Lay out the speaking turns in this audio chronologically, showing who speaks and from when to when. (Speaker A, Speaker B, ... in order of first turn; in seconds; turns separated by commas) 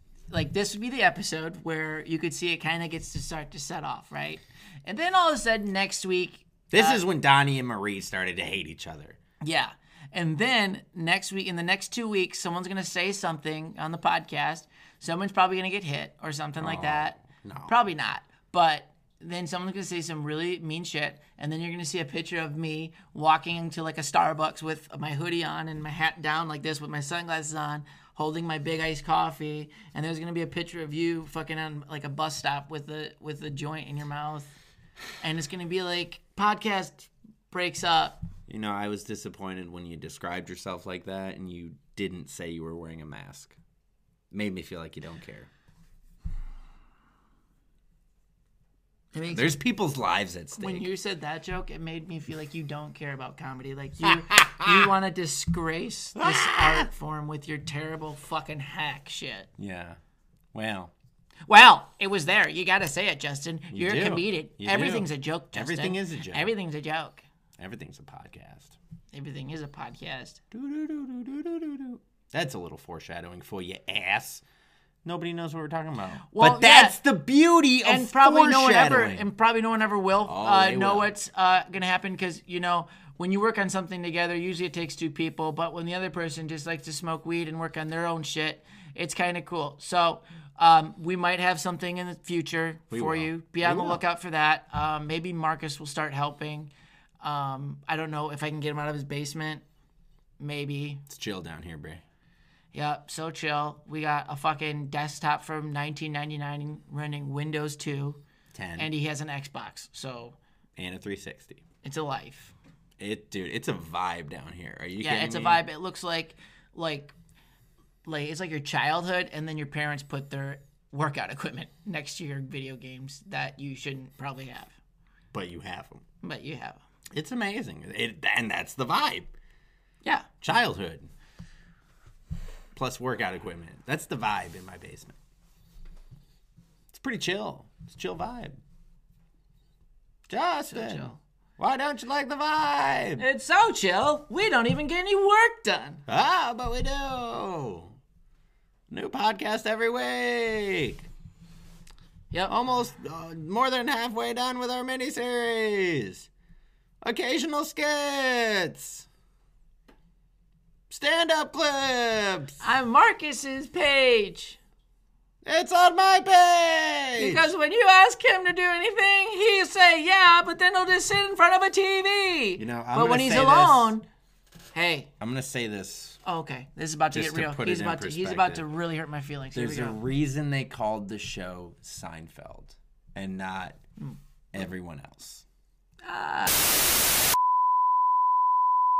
Speaker A: 0.3-7.0, Speaker B: 6.7-9.2, Speaker A: 9.4-34.5, Speaker B: 16.6-17.7, Speaker A: 35.2-38.2, Speaker B: 38.5-43.5, Speaker B: 44.3-45.5, Speaker A: 49.1-49.5, Speaker B: 49.3-50.9, Speaker A: 50.6-59.5, Speaker B: 54.0-54.9, Speaker B: 56.1-56.9, Speaker B: 59.6-60.0, Speaker B: 60.5-60.9, Speaker A: 61.5-67.2, Speaker B: 63.7-66.5, Speaker B: 67.6-68.7, Speaker A: 69.1-70.4, Speaker B: 70.5-74.4, Speaker B: 75.0-79.2, Speaker A: 76.3-77.0, Speaker A: 77.8-96.7, Speaker B: 80.2-81.1, Speaker B: 92.9-94.0, Speaker A: 97.2-99.6, Speaker A: 100.4-101.0, Speaker B: 101.1-102.0, Speaker A: 102.7-108.2, Speaker B: 108.5-108.9, Speaker A: 108.8-110.3, Speaker B: 110.8-111.6, Speaker A: 111.8-112.5, Speaker B: 113.0-115.6, Speaker A: 115.0-117.1, Speaker A: 118.0-124.7, Speaker B: 125.3-126.0, Speaker A: 126.2-126.8, Speaker B: 127.1-129.3, Speaker B: 130.4-131.1, Speaker B: 132.7-135.2, Speaker B: 136.9-138.6, Speaker B: 140.3-143.2, Speaker A: 140.7-141.2, Speaker A: 143.2-146.0, Speaker B: 146.1-147.9, Speaker B: 148.9-151.1, Speaker B: 152.5-156.3, Speaker B: 157.0-159.1, Speaker B: 160.9-162.6, Speaker A: 162.6-164.6, Speaker B: 165.4-167.5, Speaker A: 167.2-174.0, Speaker B: 172.6-173.9, Speaker A: 174.7-175.1, Speaker B: 175.2-176.2, Speaker A: 176.2-180.0, Speaker B: 177.1-178.6, Speaker B: 179.5-183.8, Speaker B: 184.5-185.4, Speaker A: 186.0-186.5